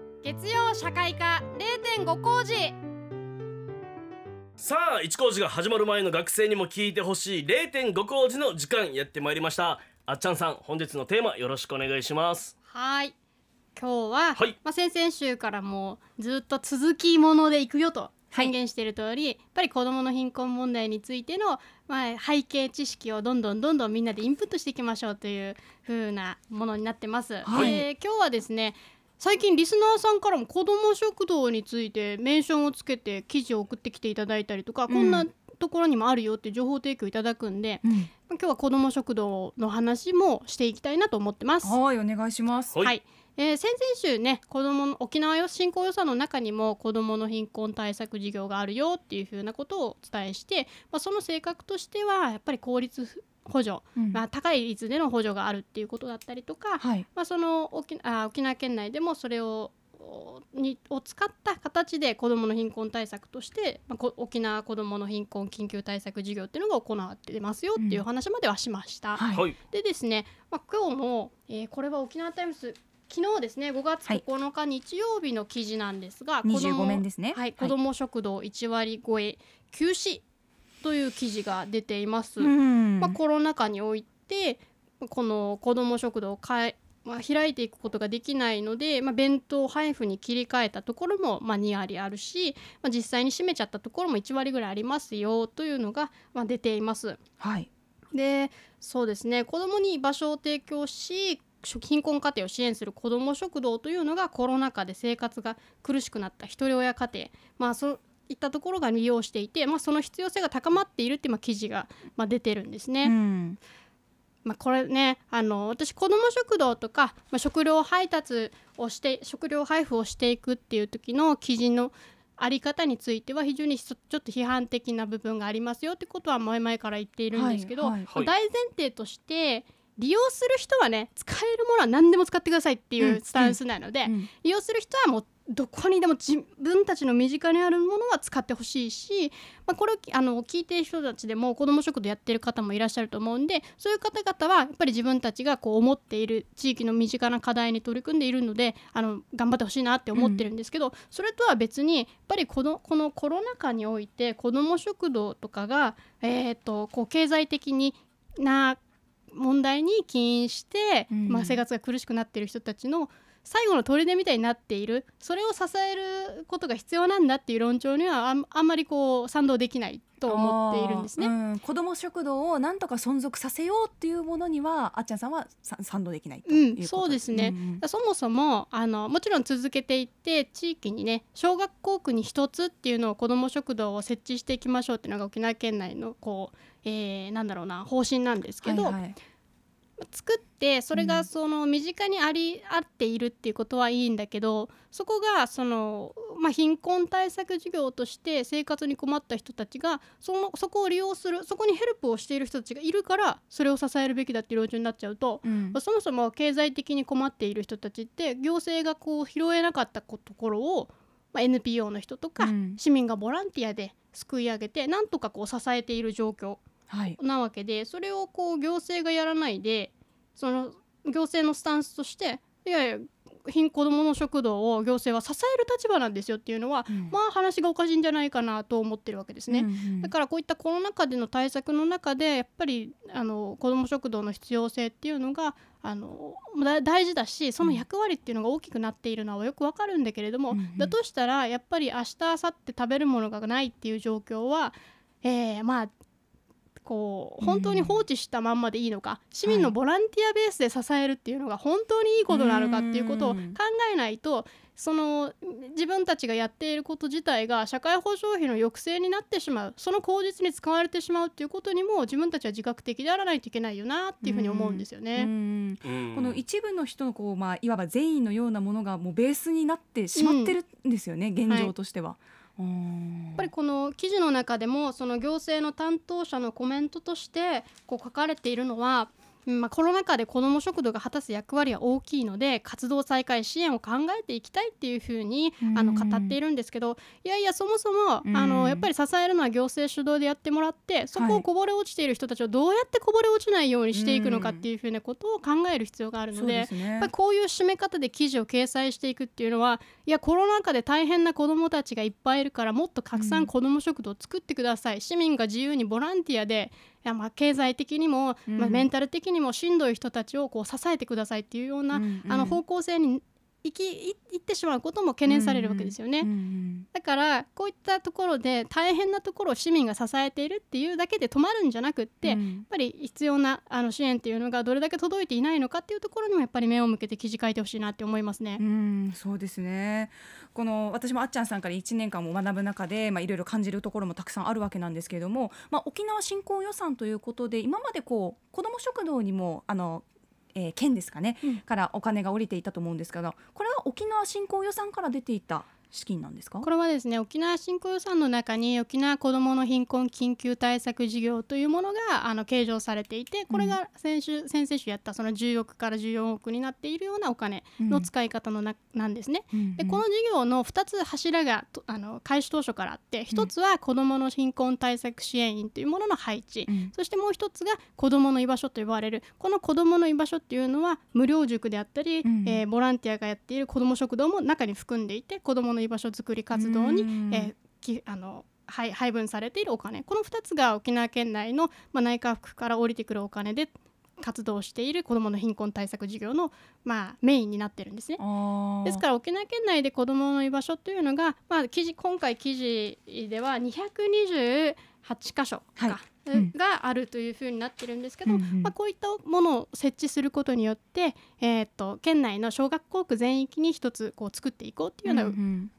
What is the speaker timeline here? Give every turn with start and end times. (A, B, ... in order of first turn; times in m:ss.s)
0:00.2-0:02.3 A
0:04.6-0:12.5 B
0:12.7-0:13.1 A
0:13.7-0:41.8 A
0:27.4-0:27.8 C
0:27.5-0:27.8 B
0:34.9-0:35.3 C
0:37.8-0:38.1 C
0:41.6-0:42.8 C
0:42.8-1:20.2 A
0:54.0-0:54.2 C
0:56.8-0:57.0 C
1:07.8-1:08.0 C
1:09.1-1:09.4 C
1:09.3-1:09.6 B
1:16.4-1:17.7 C
1:20.8-1:37.2 A
1:22.4-1:23.2 C
1:37.4-1:37.7 C
1:38.1-1:53.1 A
1:53.0-1:53.6 C
1:54.4-2:38.8 A
2:07.3-2:08.1 C
2:13.0-2:14.3 C
2:30.2-2:30.4 C
2:39.3-2:51.3 A
2:41.1-2:41.6 C
2:50.3-2:57.8 C
2:56.5-3:09.0 A
3:08.6-3:09.2 C
3:10.0-3:36.6 A
3:10.9-3:11.3 C
3:25.4-3:25.8 C
3:32.4-3:32.8 C
3:36.9-3:37.2 C
3:37.2-4:05.9 A
3:46.9-3:47.2 C
3:49.5-3:50.1 C
4:00.5-4:00.9 C
4:06.8-4:25.3 A
4:07.4-4:08.0 C
4:09.4-4:09.7 C
4:12.3-4:13.6 C
4:24.2-4:33.5 C
4:25.8-4:26.4 B
4:30.1-4:30.6 A
4:31.5-4:31.7 A
4:33.4-5:16.3 A
4:45.6-4:46.4 C
4:48.2-4:48.9 C
4:51.1-4:51.4 C
4:53.9-4:54.7 C
4:56.3-4:57.1 C
5:03.1-5:03.5 C
5:08.5-5:08.9 C
5:11.9-5:12.6 C
5:15.3-5:16.9 C
5:16.9-5:28.6 A
5:22.2-5:22.7 C
5:28.6-5:46.7 C
5:46.6-6:28.2 A
5:53.5-5:53.8 C
5:57.8-5:58.1 C
5:59.5-6:00.0 C
6:06.7-6:06.9 C
6:12.2-6:12.6 C
6:16.5-6:17.5 C
6:28.2-6:29.0 C
6:28.8-6:45.4 A
6:35.8-6:36.5 C
6:38.2-6:38.7 C
6:45.0-6:45.7 C